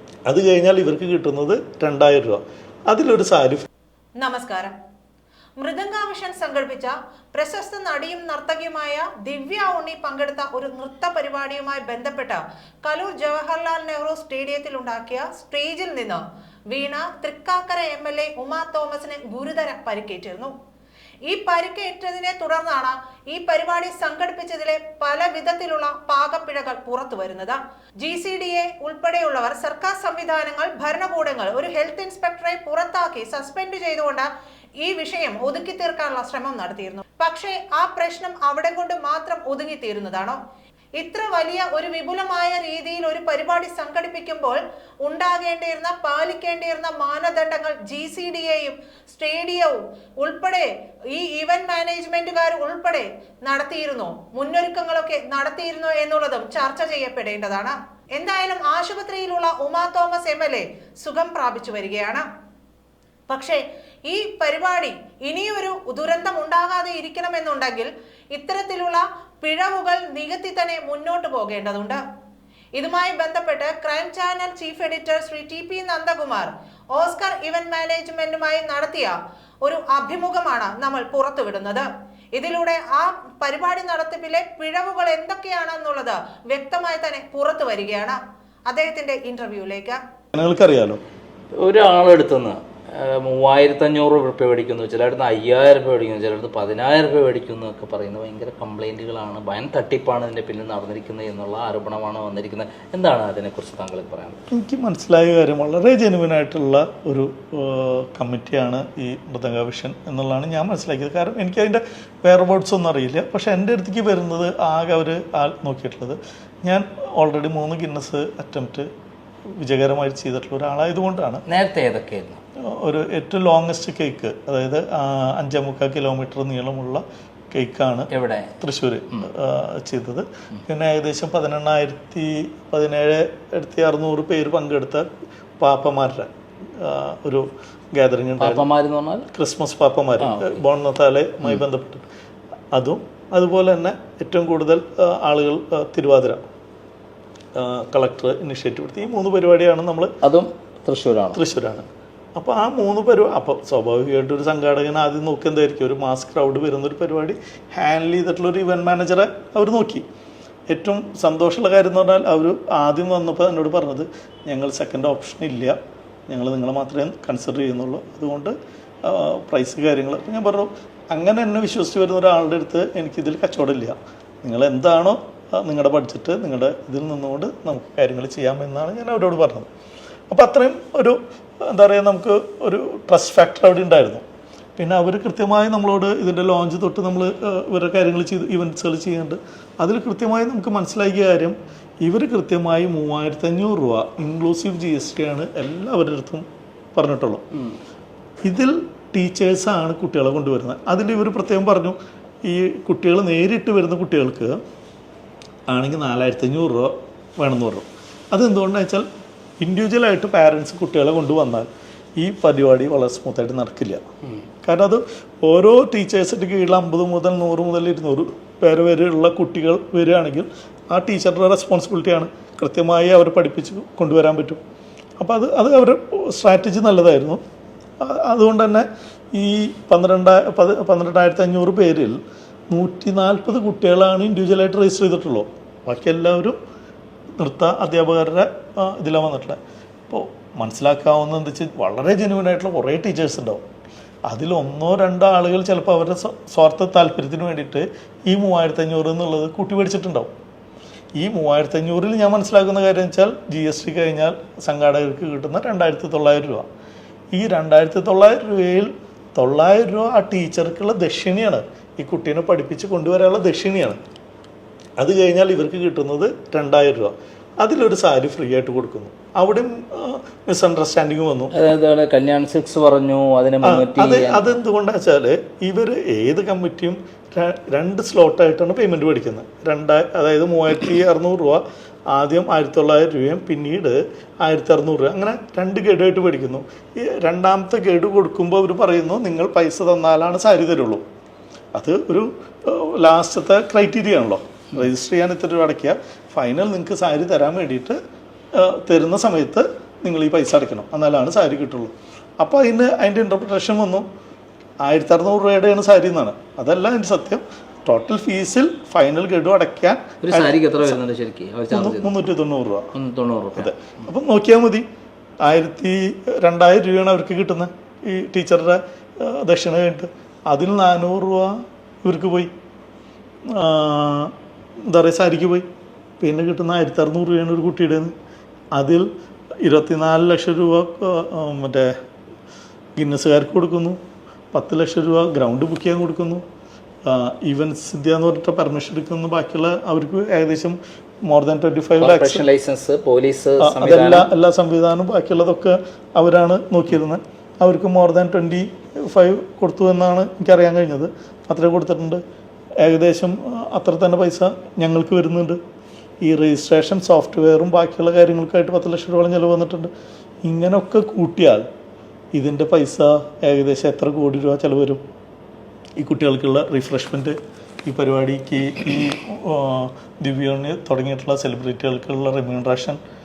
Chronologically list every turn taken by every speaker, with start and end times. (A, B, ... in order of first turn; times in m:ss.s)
0:00.3-0:03.6 A
0:04.2-0:04.8 B
0:05.6-0:20.5 B
0:21.2-0:34.3 B
0:34.8-0:40.4 B
0:41.0-1:02.2 B
1:03.3-1:12.0 B
1:12.7-1:30.0 B
1:30.3-1:31.0 A
1:31.6-1:44.4 C
1:44.5-1:58.9 A
1:59.6-2:01.4 A
2:01.5-2:02.4 C
2:02.6-2:15.1 A
2:08.1-2:08.5 C
2:15.6-2:18.7 A
2:18.4-2:19.3 C
2:19.3-2:22.0 A
2:20.2-2:20.6 C
2:22.7-2:26.4 A
2:27.5-2:30.1 A
2:30.2-2:31.4 C
2:31.3-2:40.0 A
2:40.7-2:45.8 A
2:46.3-2:59.7 A
3:00.3-3:04.2 A
3:04.8-3:17.4 A
3:18.4-3:24.6 A
3:25.7-3:29.1 A
3:29.6-3:34.1 A
3:34.6-3:44.6 A
3:45.2-3:47.4 A
3:48.0-3:56.6 A
3:57.4-4:03.6 A
4:04.3-4:10.3 A
4:11.2-4:16.6 A
4:17.3-4:24.0 A
4:25.0-4:31.5 A
4:31.5-4:34.5 C
4:33.6-4:51.0 A
4:51.8-4:58.0 A
4:58.5-5:04.0 A
5:04.8-5:11.0 A
5:10.2-5:12.1 C
5:11.7-5:12.9 A
5:12.9-5:13.8 C
5:13.6-5:14.8 A
5:15.4-5:22.5 A
5:23.5-5:24.3 A
5:24.9-5:25.7 A
5:26.2-5:28.1 A
5:28.7-5:29.1 A
5:29.6-5:32.0 A
5:33.0-5:34.0 A
5:34.5-5:36.4 A
5:37.0-5:42.4 A
5:42.0-5:44.3 C
5:43.6-5:52.2 A
5:52.8-5:55.6 A
5:56.2-5:59.9 A
6:00.4-6:01.6 A
6:02.3-6:05.0 A
6:06.0-6:13.0 A